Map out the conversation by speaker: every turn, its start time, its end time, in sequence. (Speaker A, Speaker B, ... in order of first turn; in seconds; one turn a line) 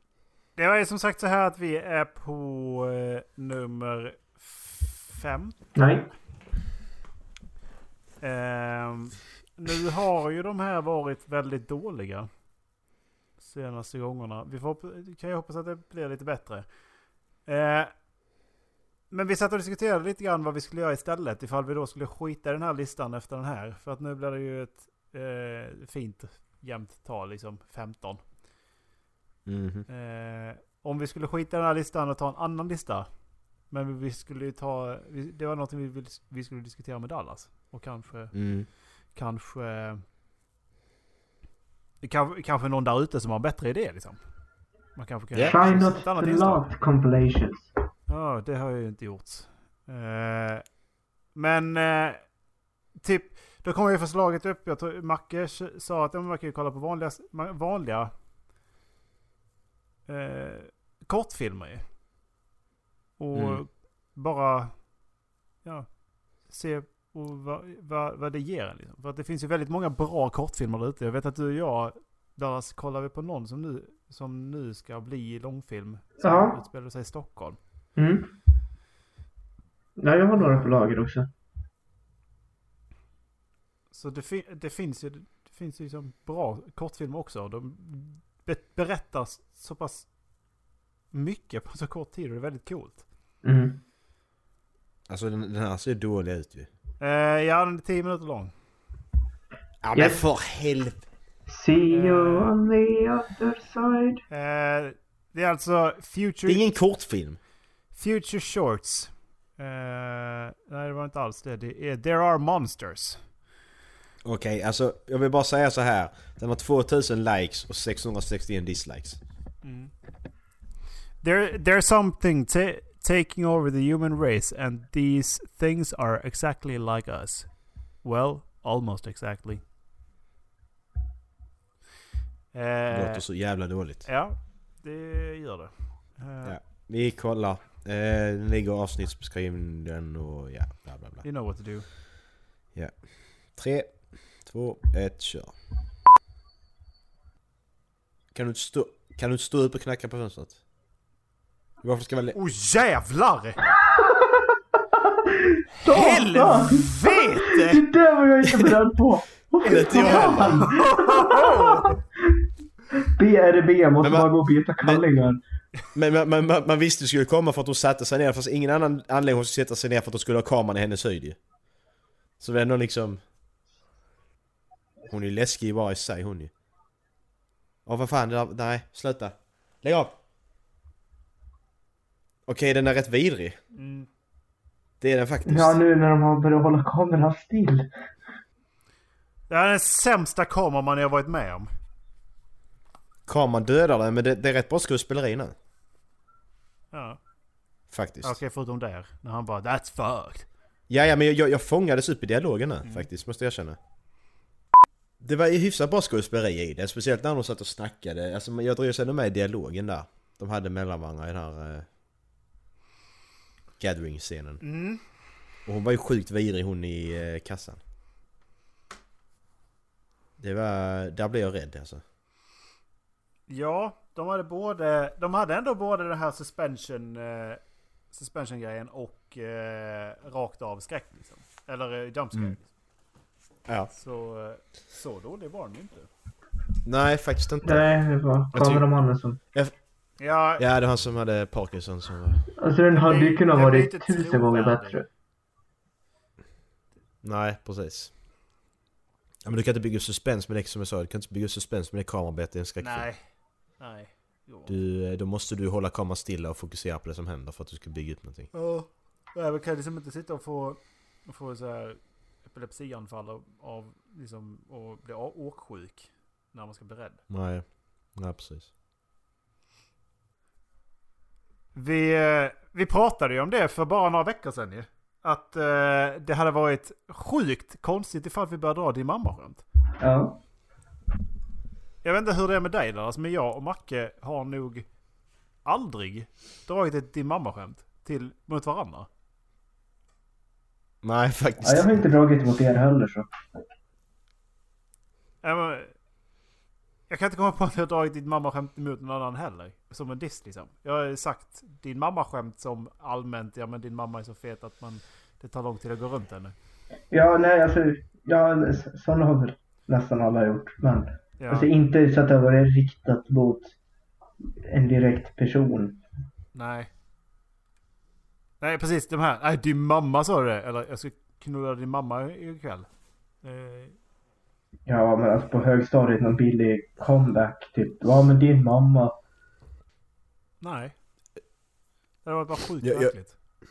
Speaker A: 0.6-5.6
Speaker B: 5.8-6.1
Speaker A: 8.2-12.3
Speaker A: 13.4-16.7
Speaker A: 17.5-17.9
Speaker A: 19.1-28.2
Speaker C: 29.5-29.9
Speaker A: 29.9-33.1
Speaker A: 33.7-38.3
Speaker C: 38.3-38.7
Speaker A: 39.1-40.0
Speaker A: 42.0-44.2
Speaker A: 45.0-46.7
Speaker B: 45.5-47.7
Speaker A: 48.1-50.6
Speaker A: 51.3-52.2
Speaker A: 53.0-58.1
Speaker A: 60.1-61.8
Speaker A: 63.2-64.8
Speaker C: 63.3-63.6
Speaker A: 65.6-65.9
Speaker A: 66.5-77.6
Speaker B: 76.2-76.6
Speaker B: 78.0-78.3
Speaker B: 80.0-81.3
Speaker A: 83.9-90.1
Speaker A: 91.1-93.0
Speaker B: 93.4-93.8
Speaker C: 95.1-96.7
Speaker A: 97.0-98.5
Speaker C: 99.8-101.0
Speaker B: 100.0-100.2
Speaker B: 101.5-104.2
Speaker A: 101.9-102.5
Speaker A: 104.3-106.7
Speaker C: 106.5-107.4
Speaker A: 107.9-113.2
Speaker C: 114.2-119.2
Speaker A: 119.6-119.9
Speaker A: 121.2-127.5
Speaker A: 128.0-129.6
Speaker A: 132.5-133.3
Speaker C: 132.9-134.1
Speaker A: 134.1-136.6
Speaker C: 136.4-141.2
Speaker A: 141.2-141.9
Speaker C: 143.5-145.5
Speaker C: 148.3-150.6
Speaker C: 151.8-152.4
Speaker A: 152.3-153.6
Speaker B: 155.4-157.0
Speaker A: 155.8-157.8
Speaker B: 157.5-161.9
Speaker C: 159.6-160.7
Speaker A: 159.7-162.0
Speaker B: 163.0-165.4
Speaker C: 164.0-164.3
Speaker C: 165.9-171.4
Speaker C: 172.4-173.2
Speaker C: 175.1-176.5
Speaker C: 177.9-180.1
Speaker C: 182.5-183.6
Speaker A: 183.7-184.1
Speaker C: 185.0-185.8
Speaker B: 185.5-187.9
Speaker A: 189.5-191.7
Speaker C: 193.3-195.6
Speaker A: 196.9-197.2
Speaker C: 197.9-198.4
Speaker A: 198.2-200.5
Speaker C: 200.9-203.8
Speaker C: 205.2-211.9
Speaker C: 213.8-214.6
Speaker A: 214.6-215.0
Speaker C: 215.7-217.8
Speaker C: 220.4-222.0
Speaker A: 223.5-232.7
Speaker A: 233.9-236.1
Speaker C: 236.8-237.9
Speaker B: 237.6-239.4
Speaker C: 238.5-238.9
Speaker A: 240.2-240.6
Speaker C: 240.6-242.4
Speaker B: 242.6-245.1
Speaker A: 242.9-245.0
Speaker C: 247.2-248.1
Speaker C: 249.4-253.1
Speaker A: 252.8-253.2
Speaker A: 253.8-254.7
Speaker C: 254.7-258.5
Speaker A: 258.5-267.2
Speaker C: 267.3-267.6
Speaker C: 268.1-268.7
Speaker A: 271.8-279.6
Speaker B: 280.0-280.4
Speaker A: 282.0-284.9
Speaker A: 285.6-289.1
Speaker C: 291.0-292.0
Speaker B: 291.6-293.3
Speaker A: 295.4-295.9
Speaker A: 297.1-306.6
Speaker B: 307.1-313.8
Speaker A: 311.4-311.7
Speaker B: 314.6-316.0
Speaker A: 316.5-316.9
Speaker A: 318.6-322.9
Speaker A: 323.4-324.0
Speaker B: 324.9-329.1
Speaker A: 330.6-330.9
Speaker A: 332.2-333.3
Speaker C: 332.8-333.1